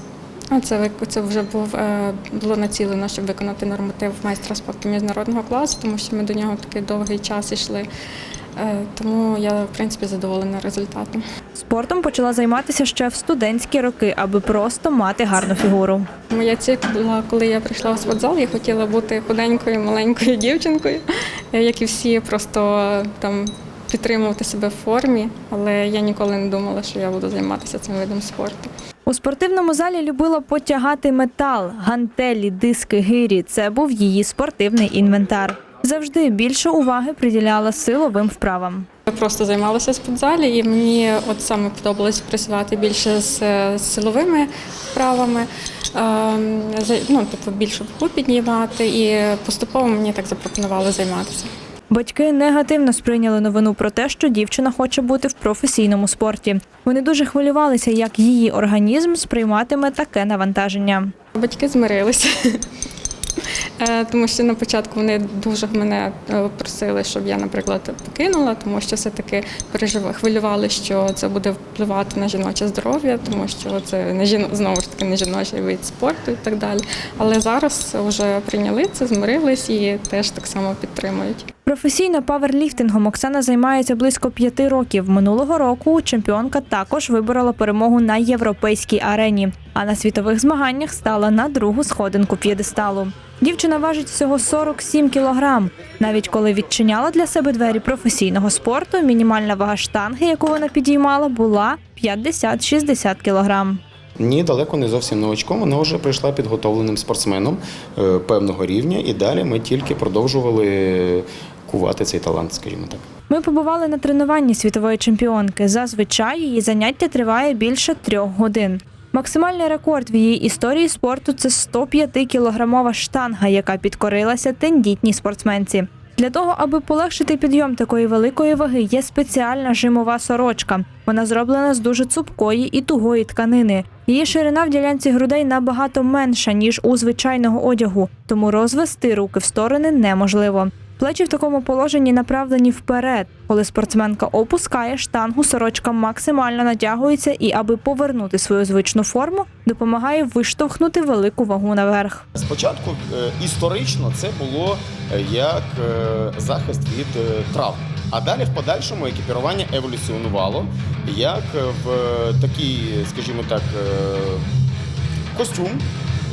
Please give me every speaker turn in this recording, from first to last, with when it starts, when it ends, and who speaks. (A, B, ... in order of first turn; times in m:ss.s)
0:00.5-0:07.9 A
0:08.6-0:11.2 A
0:11.5-0:16.1 B
0:16.3-0:28.7 A
0:29.0-0:38.8 B
0:39.1-0:51.5 A
0:51.9-1:01.1 B
1:01.3-1:02.7 A
1:03.8-1:21.5 A
1:21.6-1:43.8 B
1:44.2-1:53.0 C
1:53.3-2:32.2 B
2:32.4-2:44.4 C
2:45.3-2:45.8 C